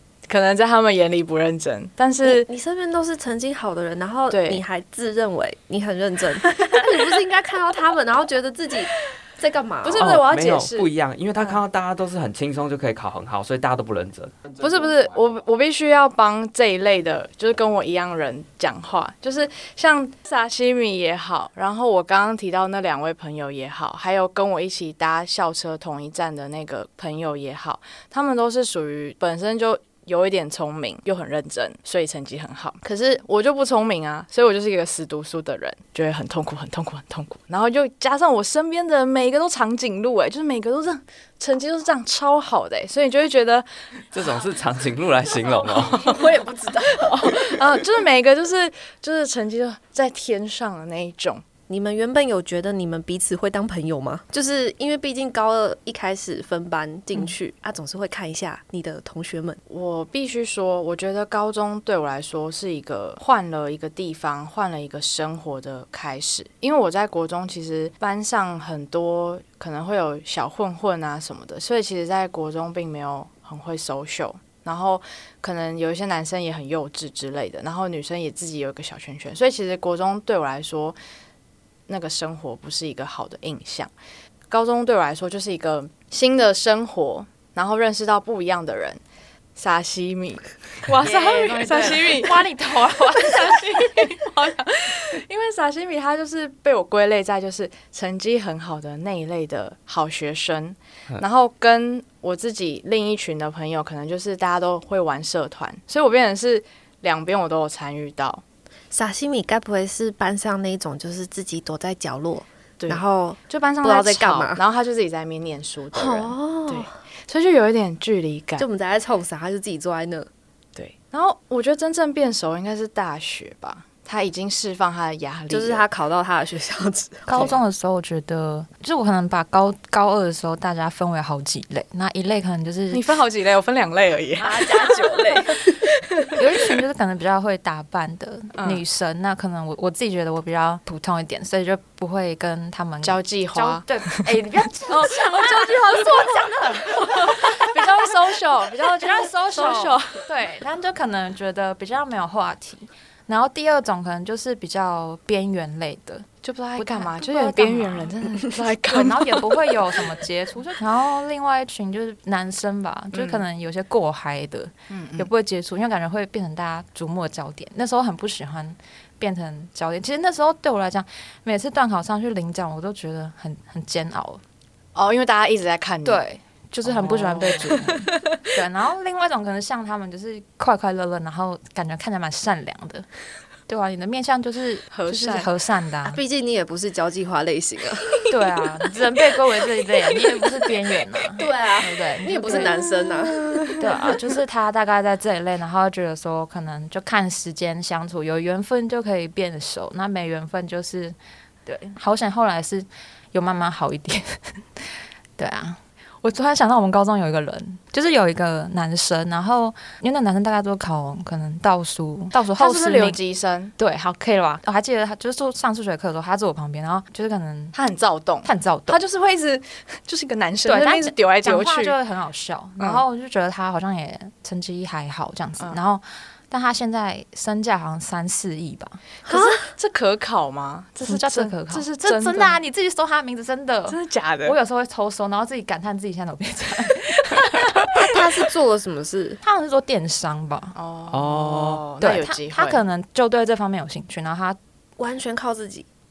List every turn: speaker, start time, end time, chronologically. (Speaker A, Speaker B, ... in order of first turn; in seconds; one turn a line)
Speaker A: 0.3-2.5
Speaker B: 2.2-10.1
Speaker A: 4.3-4.6
Speaker A: 9.8-11.6
Speaker C: 10.0-14.3
Speaker A: 14.6-43.7
Speaker C: 44.1-46.0
Speaker B: 45.8-47.6
Speaker A: 45.9-51.4
Speaker B: 51.7-59.6
Speaker A: 59.7-81.0
Speaker A: 81.9-83.9
Speaker A: 84.5-89.0
Speaker A: 89.6-92.5
Speaker D: 91.0-93.8
Speaker A: 93.1-108.4
Speaker B: 108.9-114.6
Speaker A: 112.8-118.7
Speaker B: 115.9-116.9
Speaker B: 118.6-120.3
Speaker A: 120.8-125.8
Speaker B: 125.5-127.6
Speaker D: 127.3-133.0
Speaker A: 132.9-136.4
Speaker B: 134.4-135.7
Speaker D: 136.3-148.1
Speaker A: 138.6-138.8
Speaker A: 143.0-143.8
Speaker A: 144.9-150.2
Speaker D: 149.0-158.2
Speaker A: 156.4-160.0
Speaker D: 158.9-174.4
Speaker A: 163.1-163.4
Speaker A: 164.9-165.3
Speaker A: 174.9-176.2
Speaker D: 176.0-183.1
Speaker A: 176.8-178.2
Speaker D: 183.7-186.2
Speaker A: 184.9-185.5
Speaker B: 186.1-188.3
Speaker D: 188.3-192.8
Speaker B: 191.3-193.8
Speaker A: 192.5-193.8
Speaker D: 193.8-213.2
Speaker A: 212.3-213.7
Speaker D: 213.8-217.8
Speaker A: 217.7-222.0
Speaker D: 218.4-219.0
Speaker D: 220.7-229.0
Speaker A: 229.2-232.6
Speaker B: 229.3-229.6
Speaker D: 231.1-237.7
Speaker A: 233.9-234.6
Speaker B: 237.9-239.4
Speaker D: 239.4-240.8
Speaker A: 240.8-242.8
Speaker C: 241.1-241.8
Speaker D: 242.0-244.6
Speaker B: 245.0-245.9